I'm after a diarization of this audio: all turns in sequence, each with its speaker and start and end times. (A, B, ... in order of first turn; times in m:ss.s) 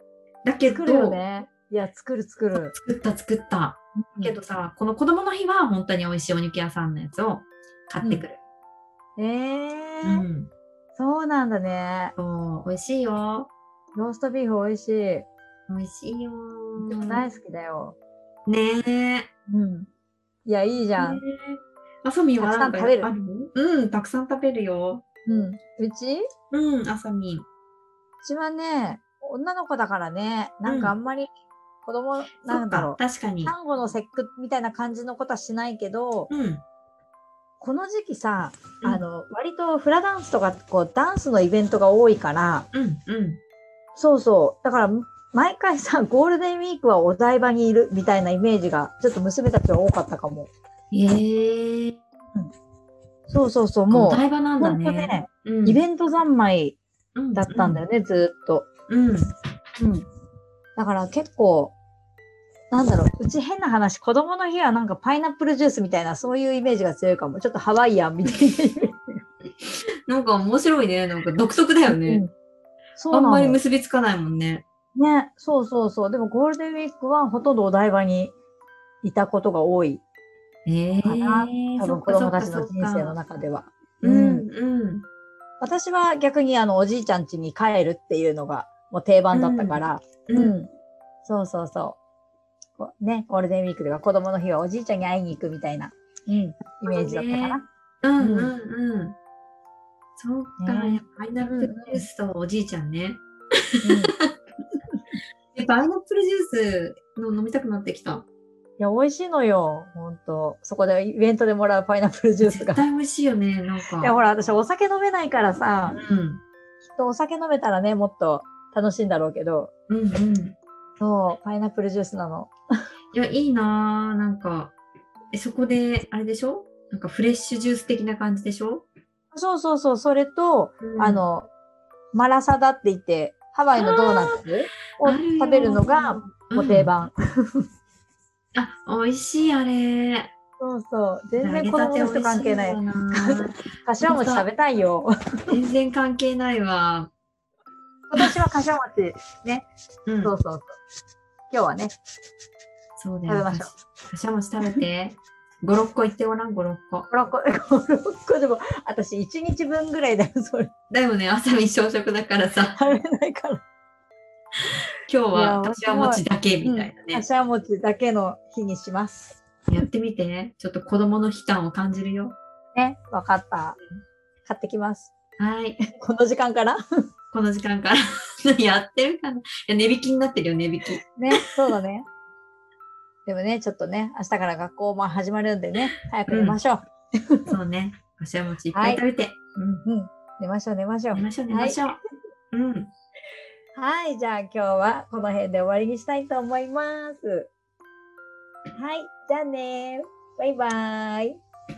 0:00.4-0:01.2 A
0:00.7-0:02.7 B
0:02.7-0:08.4 A
0:04.0-0:04.3 B
0:09.2-0:10.2 B
0:10.0-0:10.5 A
0:11.0-0:12.1 B
0:12.2-0:13.5 A
0:13.9-0:15.2 B
0:15.7-0:17.2 A
0:16.8-0:18.0 B
0:18.4-0:19.3 A
0:19.5-0:19.9 B
0:20.4-0:21.2 B
0:21.0-0:25.0 A
0:22.4-0:23.1 B
0:25.2-0:26.2 B
0:26.5-0:27.4 A
0:28.2-0:31.3 B
0:30.6-0:30.9 A
0:31.8-0:36.3 B
0:32.4-0:33.5 A
0:36.3-0:36.6 A
0:37.6-0:42.6 B
0:42.7-0:43.4 A
0:44.0-0:50.5 B
0:50.9-0:52.0 A
0:53.3-0:56.8 B
0:53.9-0:55.8 A
0:57.1-0:57.8 A
0:57.3-0:58.6 B
0:58.9-0:59.3 A
0:59.8-1:00.0 B
1:00.8-1:01.7 B
1:02.7-1:09.2 B
1:10.1-1:12.2 A
1:11.9-1:12.3 B
1:13.0-1:13.6 B
1:13.1-1:14.6 A
1:14.9-1:18.3 B
1:19.0-1:20.0 B
1:20.6-1:23.1 A
1:21.0-1:24.5 B
1:24.0-1:25.0 A
1:25.6-1:30.7 B
1:29.3-1:30.5 A
1:31.2-1:32.0 B
1:32.8-1:37.6 B
1:36.9-1:39.2 A
1:38.2-1:38.5 B
1:40.2-1:43.2 A
1:40.6-1:42.0 B
1:43.7-1:44.3 A
1:43.8-1:44.1 B
1:45.5-1:48.2 A
1:48.8-1:52.8 B
1:52.4-1:54.2 A
1:54.0-1:56.0 B
1:55.9-1:56.4 A
1:56.8-1:59.7 B
1:59.9-2:00.5 A
2:01.0-2:02.5 B
2:03.1-2:04.7 A
2:05.3-2:08.8 A
2:09.3-2:11.5 B
2:10.8-2:11.2 A
2:12.1-2:17.6 B
2:13.8-2:14.4 A
2:15.0-2:16.9 A
2:18.5-2:20.3 A
2:20.6-2:25.1 B
2:21.4-2:24.4 A
2:25.5-2:27.1 A
2:28.1-2:29.6 B
2:30.0-2:30.3 A
2:30.2-2:30.8 B
2:31.5-2:32.0 B
2:33.0-2:37.1 A
2:33.3-2:33.8 B
2:37.1-2:40.7 B
2:40.9-2:42.8 A
2:42.7-2:43.6 B
2:45.1-2:47.2 A
2:45.3-2:49.4 B
2:49.7-2:52.4 A
2:52.7-2:53.8 B
2:54.4-2:55.1 B
2:55.4-2:55.8 A
2:55.9-2:56.8 B
2:57.3-3:01.4 A
3:01.2-3:02.0 B
3:03.2-3:07.4 B
3:06.3-3:06.6 A
3:07.5-3:09.8 A
3:08.7-3:09.0 B
3:09.8-3:11.8 B
3:11.1-3:12.0 A
3:12.5-3:12.9 A
3:13.8-3:17.5 B
3:18.8-3:21.4 B